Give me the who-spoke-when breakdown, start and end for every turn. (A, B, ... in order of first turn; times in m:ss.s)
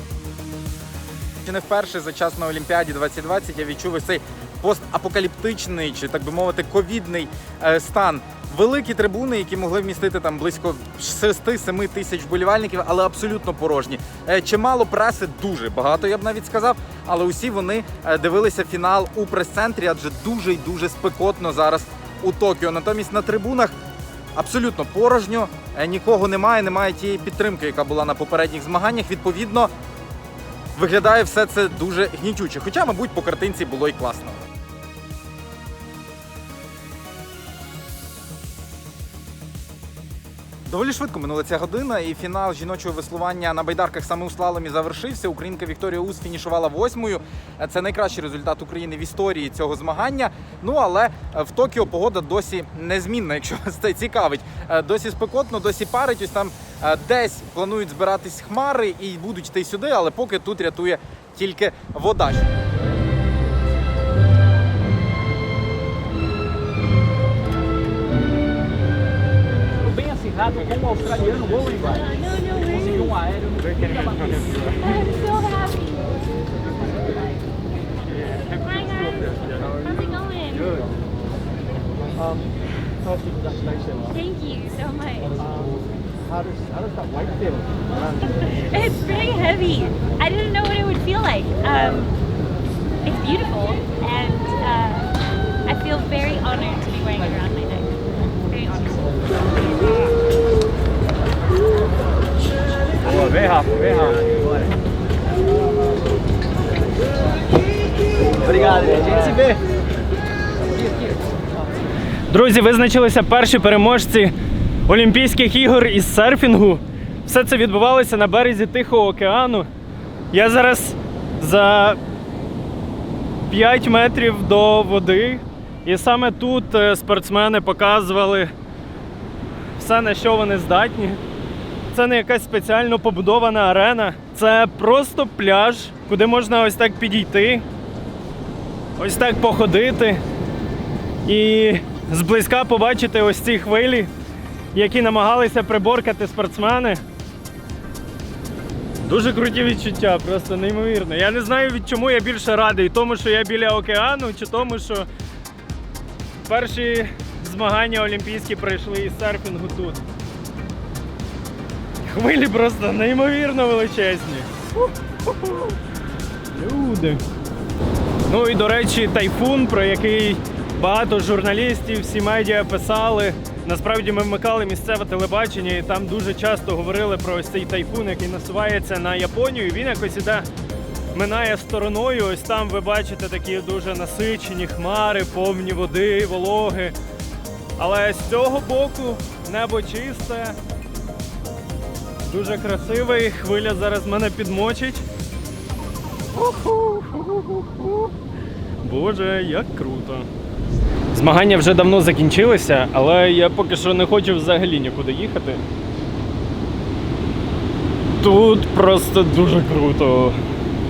0:01.5-0:23.7 A
0:24.4-0:29.7 A
0:30.8-0:34.4 A
0:40.7-1:02.5 A
1:09.8-1:12.0 B
1:12.0-1:13.2 C
1:13.1-1:14.3 B
1:14.7-1:16.3 C
1:18.4-1:20.9 C
1:24.0-1:25.6 C
1:26.6-1:27.6 B
1:28.2-1:32.2 C
1:33.0-1:35.1 C
1:35.7-1:39.9 C
1:43.1-1:44.4 B
1:48.5-1:49.6 B
1:52.3-1:54.3 D
1:54.9-1:59.7 D
2:00.3-2:02.0 D
2:03.4-2:08.5 D
2:09.8-2:11.2 D
2:11.9-2:17.6 D
2:19.0-2:20.2 D
2:21.2-2:24.1 D
2:24.7-2:27.0 D
2:29.0-2:35.1 D
2:36.5-2:40.1 D
2:42.0-2:45.7 D
2:46.5-2:47.2 D
2:48.3-3:00.5 D
3:01.1-3:07.0 D
3:07.8-3:10.6 D
3:12.2-3:15.1 D
3:16.3-3:18.1 D
3:18.8-3:20.3 D
3:21.1-3:25.6 D
3:28.2-3:30.4 D